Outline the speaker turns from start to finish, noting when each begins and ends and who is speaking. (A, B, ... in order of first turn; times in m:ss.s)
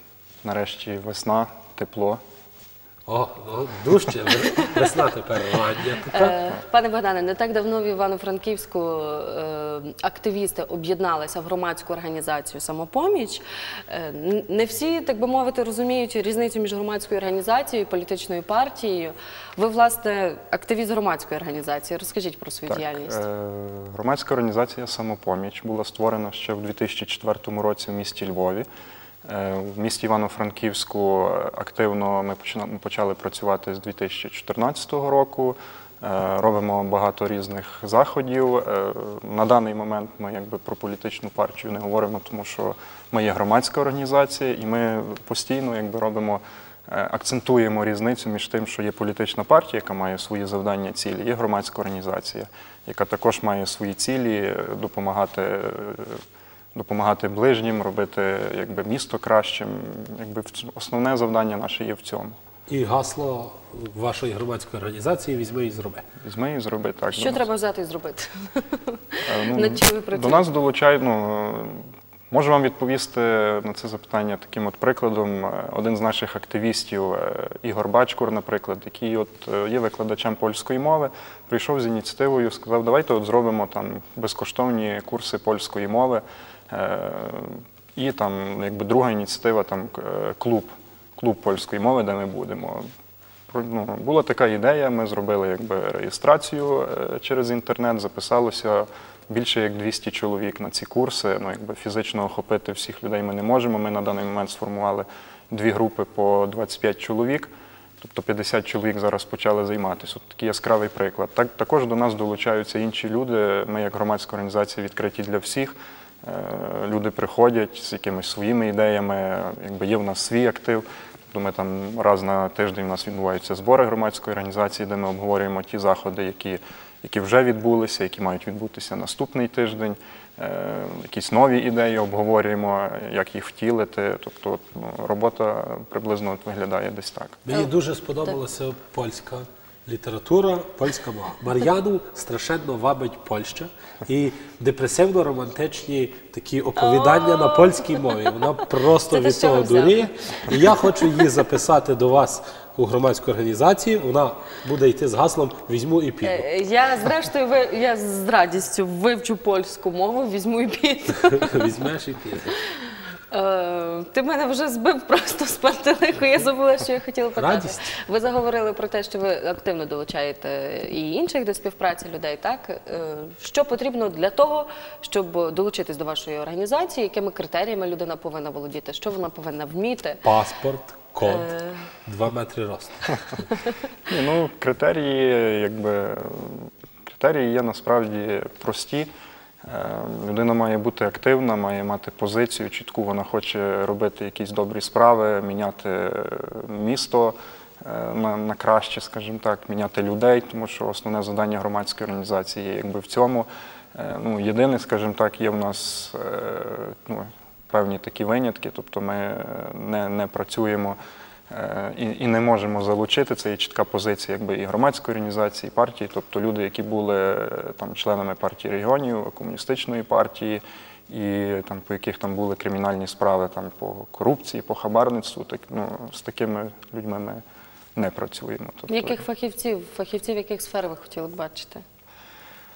0:00.4-0:02.2 A
0:03.0-0:06.4 B
0:06.0-0:23.2 C
0:22.7-0:28.6 A
0:29.2-0:56.2 A
0:56.7-1:02.3 A
1:02.7-1:06.0 B
1:06.2-1:07.5 A
1:07.1-1:10.4 C
1:09.2-1:32.8 A
1:33.5-1:47.5 A
1:48.0-2:17.4 A
2:17.4-2:36.4 B
2:26.8-2:28.0 C
2:29.0-2:30.3 C
2:36.2-2:41.7 C
2:41.3-2:42.6 B
2:43.3-3:00.2 C
2:47.4-2:47.9 B
3:00.2-3:01.5 B
3:01.2-3:01.8 C
3:02.0-3:03.2 B
3:04.1-3:09.1 A
3:09.6-3:31.0 A
3:31.5-3:47.4 A
3:48.0-3:49.2 A
3:48.9-3:51.8 C